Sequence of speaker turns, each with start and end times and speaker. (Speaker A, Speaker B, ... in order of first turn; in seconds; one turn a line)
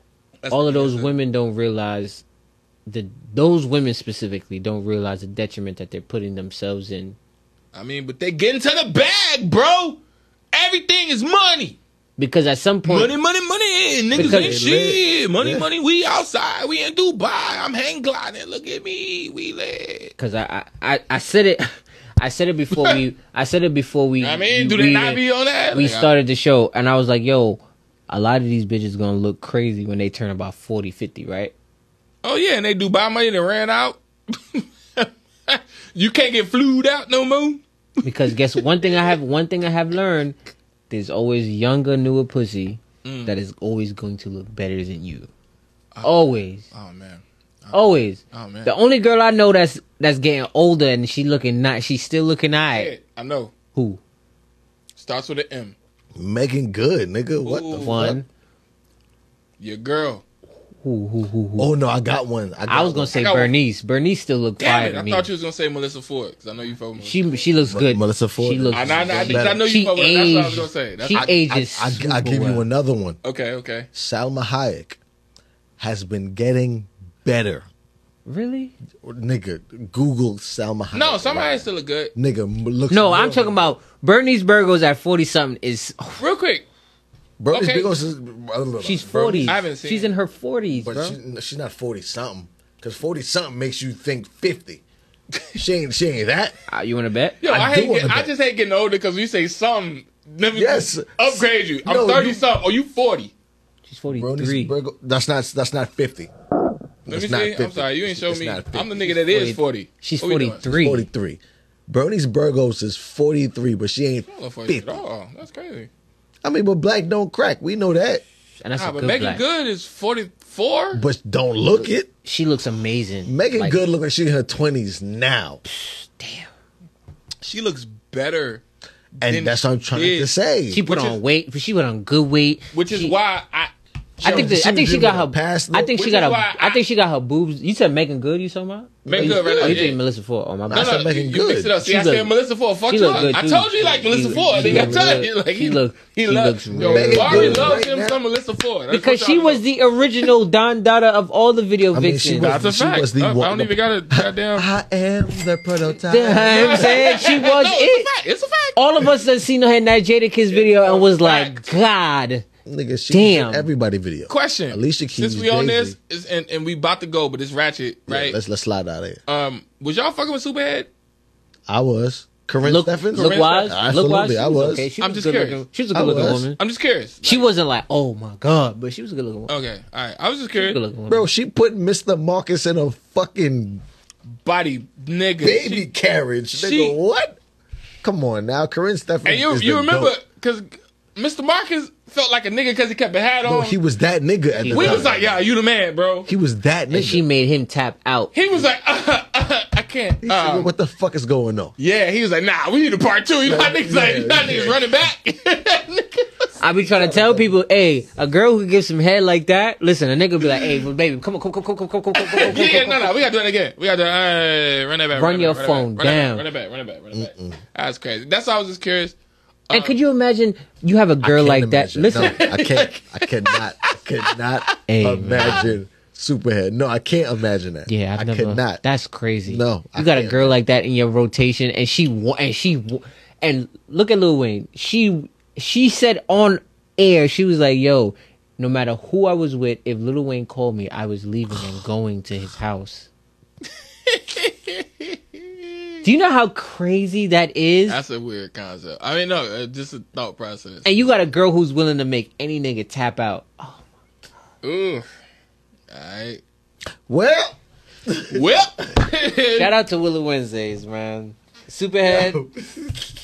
Speaker A: 0.4-1.1
Speaker B: 0.5-2.2
Speaker B: 2.9-7.2
Speaker A: 7.7-10.0
Speaker A: 10.5-11.8
Speaker B: 12.2-13.1
Speaker A: 12.8-20.1
Speaker C: 14.1-15.7
Speaker B: 14.2-14.6
Speaker B: 20.2-25.2
Speaker A: 22.7-23.0
Speaker A: 24.2-26.1
Speaker B: 25.7-31.5
Speaker A: 32.2-37.6
Speaker B: 38.0-40.4
Speaker A: 38.6-39.1
Speaker B: 40.9-45.3
Speaker A: 43.0-43.3
Speaker A: 45.9-48.7
Speaker B: 46.0-46.6
Speaker B: 47.7-52.9
Speaker A: 52.7-53.5
Speaker B: 53.7-54.0
Speaker A: 55.0-55.7
Speaker C: 56.1-58.2
Speaker A: 57.4-58.1
Speaker B: 57.8-58.2
Speaker A: 59.6-60.2
Speaker B: 60.8-61.7
Speaker C: 61.6-63.2
Speaker B: 62.7-65.3
Speaker A: 63.1-63.5
Speaker A: 64.6-67.2
Speaker B: 67.0-72.6
Speaker C: 67.6-69.6
Speaker A: 68.7-71.3
Speaker C: 71.1-73.2
Speaker A: 73.2-73.9
Speaker C: 73.9-75.0
Speaker C: 75.8-77.7
Speaker B: 78.2-78.7
Speaker C: 79.0-83.7
Speaker A: 80.9-82.1
Speaker B: 82.9-86.2
Speaker A: 86.2-86.7
Speaker C: 87.4-89.6
Speaker A: 87.5-87.9
Speaker B: 88.8-91.2
Speaker A: 89.4-90.1
Speaker C: 90.7-94.8
Speaker C: 95.5-96.5
Speaker B: 96.7-97.4
Speaker A: 97.4-103.3
Speaker C: 97.4-98.3
Speaker C: 100.5-102.4
Speaker B: 103.8-104.7
Speaker C: 104.1-106.3
Speaker C: 107.0-109.0
Speaker A: 107.1-110.6
Speaker B: 109.1-111.1
Speaker C: 110.7-115.0
Speaker A: 114.3-115.9
Speaker C: 116.4-118.2
Speaker B: 118.6-119.4
Speaker A: 118.8-121.0
Speaker C: 120.9-122.1
Speaker B: 121.8-123.8
Speaker C: 123.2-125.6
Speaker B: 125.7-126.5
Speaker A: 127.4-128.6
Speaker A: 129.2-130.3
Speaker C: 129.2-130.8
Speaker B: 130.7-133.1
Speaker A: 130.8-131.2
Speaker A: 132.7-134.6
Speaker C: 134.2-135.9
Speaker B: 134.2-141.1
Speaker A: 135.9-136.8
Speaker C: 139.0-140.0
Speaker A: 139.1-140.0
Speaker C: 140.7-141.8
Speaker A: 140.7-149.6
Speaker B: 141.8-142.3
Speaker B: 142.9-147.8
Speaker C: 144.2-145.2
Speaker C: 146.7-148.2
Speaker B: 148.9-152.5
Speaker C: 151.9-157.1
Speaker A: 152.4-154.7
Speaker B: 156.1-158.1
Speaker A: 156.4-159.1
Speaker B: 158.8-162.4
Speaker A: 160.5-161.7
Speaker C: 162.7-165.9
Speaker B: 163.1-163.7
Speaker A: 164.3-168.4
Speaker C: 168.1-169.2
Speaker A: 169.3-170.9
Speaker C: 171.7-174.9
Speaker B: 172.6-176.6
Speaker A: 173.1-173.8
Speaker A: 175.0-177.5
Speaker C: 175.9-176.5
Speaker B: 177.2-179.5
Speaker A: 179.5-180.8
Speaker B: 180.6-181.2
Speaker C: 181.1-183.8
Speaker A: 184.4-185.8
Speaker C: 185.4-187.4
Speaker A: 186.5-187.0
Speaker C: 188.0-190.1
Speaker A: 189.2-193.8
Speaker C: 193.4-195.3
Speaker B: 194.6-195.1
Speaker A: 194.7-196.3
Speaker C: 196.2-197.2
Speaker B: 196.9-198.3
Speaker A: 198.3-200.7
Speaker C: 200.2-201.7
Speaker A: 201.8-206.4
Speaker C: 203.4-204.9
Speaker B: 206.6-213.1
Speaker C: 206.8-207.5
Speaker A: 212.2-219.1
Speaker B: 215.1-216.4
Speaker C: 217.1-217.6
Speaker A: 219.7-220.0
Speaker B: 219.7-222.4
Speaker C: 221.2-228.8
Speaker A: 222.2-224.7
Speaker B: 224.9-225.7
Speaker A: 225.4-225.7
Speaker B: 227.9-243.1
Speaker C: 229.5-230.6
Speaker A: 244.1-245.4
Speaker B: 246.0-248.0
Speaker A: 247.9-250.8
Speaker B: 250.8-253.8
Speaker A: 254.6-255.0
Speaker A: 255.9-256.4
Speaker C: 257.1-258.4
Speaker A: 258.3-259.7
Speaker B: 259.6-262.4
Speaker C: 262.1-263.0